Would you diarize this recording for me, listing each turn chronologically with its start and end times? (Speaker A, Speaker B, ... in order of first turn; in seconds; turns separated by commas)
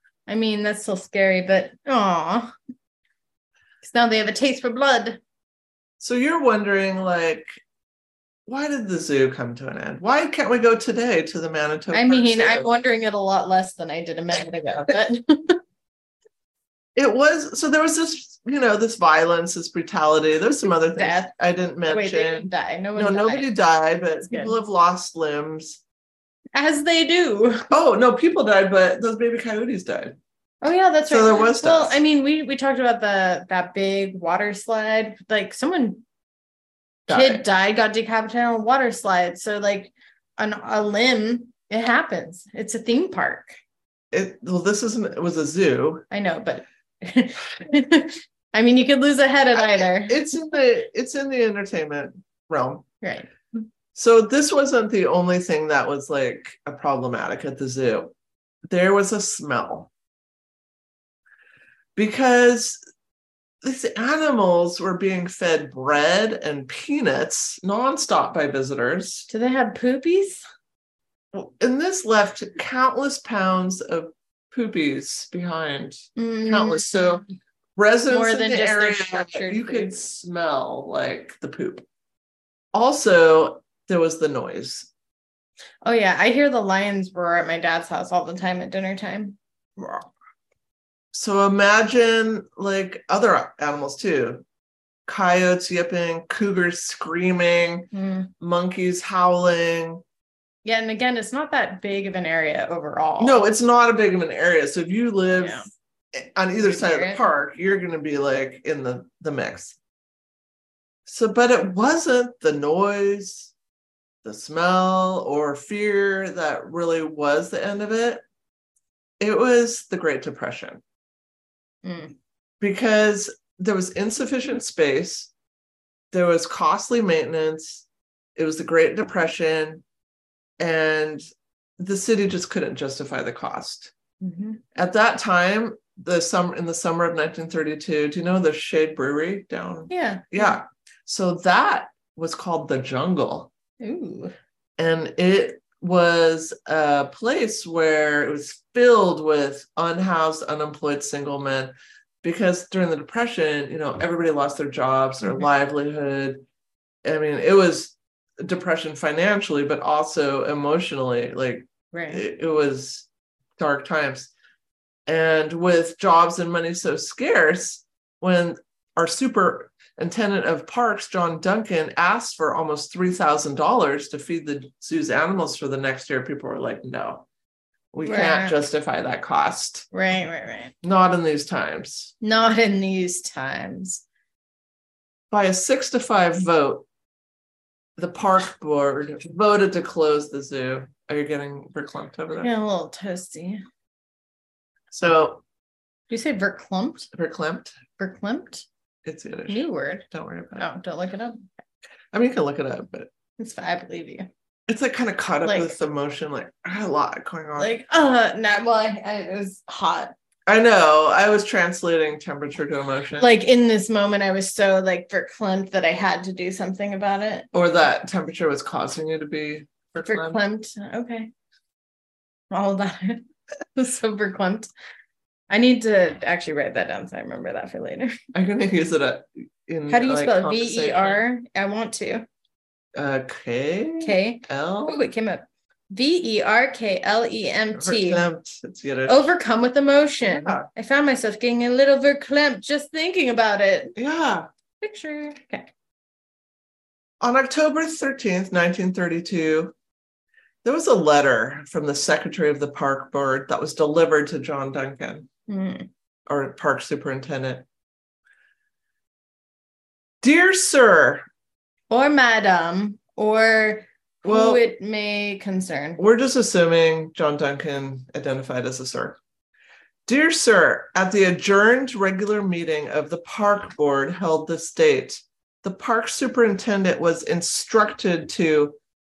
Speaker A: 0.3-2.5, Speaker A: 3.8-5.2, Speaker B: 6.0-7.5, Speaker B: 8.4-12.7, Speaker A: 11.9-15.6, Speaker B: 16.9-25.8, Speaker A: 20.7-21.3, Speaker A: 21.9-23.5, Speaker A: 24.3-24.5, Speaker A: 26.5-27.7, Speaker B: 27.7-30.2, Speaker A: 30.6-36.0, Speaker B: 31.1-32.0, Speaker B: 37.1-37.4, Speaker A: 37.1-43.5, Speaker B: 44.1-46.0, Speaker A: 46.1-50.2, Speaker B: 49.5-52.8, Speaker A: 53.0-53.3, Speaker B: 53.9-58.1, Speaker B: 58.7-59.9, Speaker B: 62.0-62.8, Speaker B: 63.6-69.3, Speaker A: 69.3-70.4, Speaker B: 71.3-77.2, Speaker A: 76.2-76.9, Speaker B: 77.8-81.8, Speaker A: 78.1-79.9, Speaker B: 82.7-84.9, Speaker A: 85.8-90.0, Speaker B: 91.1-94.4, Speaker B: 95.1-100.0, Speaker A: 97.9-98.3, Speaker A: 100.6-103.4, Speaker B: 103.2-109.8, Speaker A: 105.3-105.7, Speaker A: 106.6-107.2, Speaker B: 111.0-113.5, Speaker B: 114.2-118.2, Speaker B: 119.2-120.8, Speaker A: 121.8-122.1, Speaker B: 122.6-125.3, Speaker B: 126.1-127.8, Speaker B: 128.3-129.8, Speaker B: 130.6-131.2, Speaker B: 131.8-133.9, Speaker A: 134.2-134.6, Speaker B: 134.7-143.5, Speaker A: 139.9-140.5, Speaker A: 143.8-144.3, Speaker B: 144.8-151.7, Speaker B: 152.2-156.4, Speaker B: 157.0-163.1, Speaker A: 161.9-162.2, Speaker B: 163.6-164.3, Speaker B: 165.1-177.3, Speaker B: 177.9-179.9, Speaker A: 178.0-178.6, Speaker A: 179.9-180.7, Speaker B: 180.8-182.1, Speaker A: 182.2-184.0, Speaker B: 185.3-186.8, Speaker B: 188.0-192.5, Speaker A: 192.4-193.6, Speaker B: 194.9-195.4, Speaker A: 196.1-197.1, Speaker B: 197.1-197.7, Speaker A: 198.0-198.6, Speaker B: 199.0-200.7, Speaker A: 199.5-201.5, Speaker B: 202.1-203.1, Speaker A: 203.4-204.3, Speaker B: 204.7-207.7, Speaker A: 205.4-205.7, Speaker A: 207.6-210.1, Speaker B: 210.5-213.3, Speaker A: 213.2-217.5, Speaker B: 217.5-220.4, Speaker A: 220.0-221.3, Speaker A: 222.5-223.2, Speaker A: 223.8-224.7, Speaker A: 225.5-228.2, Speaker B: 228.3-231.2, Speaker A: 229.9-232.2, Speaker B: 232.9-235.0, Speaker A: 234.0-238.2, Speaker B: 237.7-239.3, Speaker A: 239.1-243.9, Speaker B: 240.2-240.7, Speaker B: 243.9-244.5, Speaker A: 244.8-245.7, Speaker B: 247.2-249.7, Speaker B: 250.6-255.3, Speaker A: 255.5-255.9, Speaker B: 256.3-257.6, Speaker B: 260.2-261.2, Speaker A: 261.9-266.0, Speaker B: 264.2-264.6, Speaker B: 266.0-269.2, Speaker B: 270.1-278.8